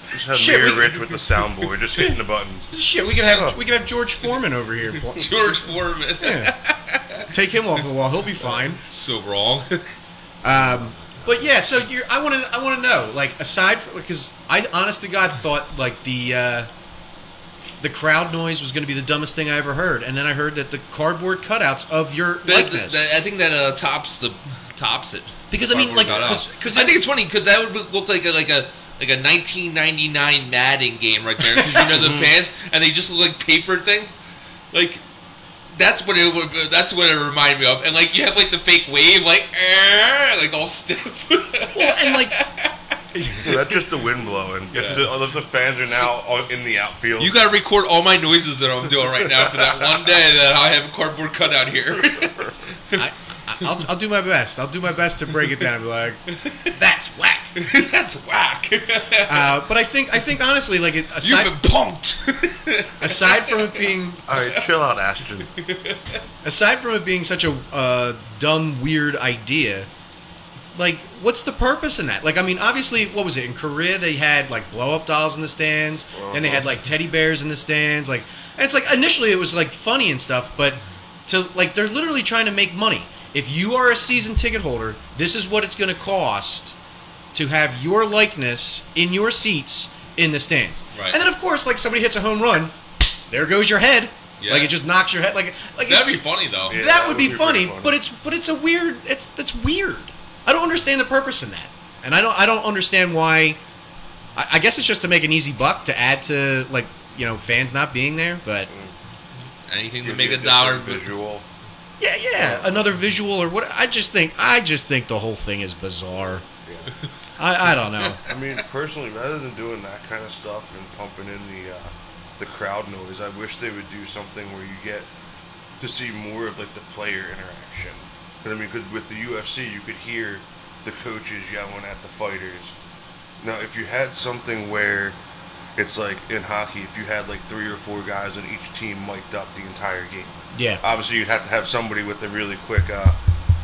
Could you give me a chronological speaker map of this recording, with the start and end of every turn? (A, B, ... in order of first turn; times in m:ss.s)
0:00.1-0:02.7 A
0:00.3-0:00.9 B
0:01.1-0:01.7 C
0:02.7-0:05.6 B
0:03.3-0:03.6 A
0:04.9-0:07.3 C
0:06.2-0:06.5 B
0:07.3-0:08.8 B
0:08.5-0:09.9 C
0:10.4-0:16.7 B
0:10.5-0:11.2 A
0:17.8-0:23.1 B
0:22.4-0:34.1 C
0:25.5-0:27.0 B
0:31.9-0:32.3 A
0:34.7-0:35.0 C
0:35.7-0:43.0 C
0:41.7-0:42.4 B
0:43.2-0:43.6 B
0:43.4-0:47.4 A
0:44.7-0:45.1 C
0:47.2-0:53.1 C
0:49.3-0:50.0 A
0:53.0-0:57.6 B
0:56.4-0:56.7 C
0:57.6-0:59.6 C
0:59.2-1:01.6 B
1:01.2-1:04.6 C
1:03.0-1:04.2 B
1:04.3-1:05.5 A
1:05.6-1:06.2 C
1:06.4-1:09.9 B
1:10.7-1:26.8 B
1:16.1-1:16.7 A
1:27.3-1:43.6 B
1:30.9-1:31.2 C
1:34.4-1:34.7 C
1:35.9-1:36.8 C
1:36.7-1:38.0 A
1:44.4-1:48.7 B
1:48.7-1:49.0 A
1:49.7-1:51.1 C
1:50.0-1:51.5 A
1:52.0-1:56.4 B
1:52.4-1:52.8 A
1:56.6-1:56.9 A
1:57.4-1:58.2 B
1:58.0-1:58.4 C
1:58.2-2:05.1 A
2:05.8-2:12.7 A
2:13.4-2:15.2 A
2:15.8-2:23.2 A
2:20.5-2:20.8 B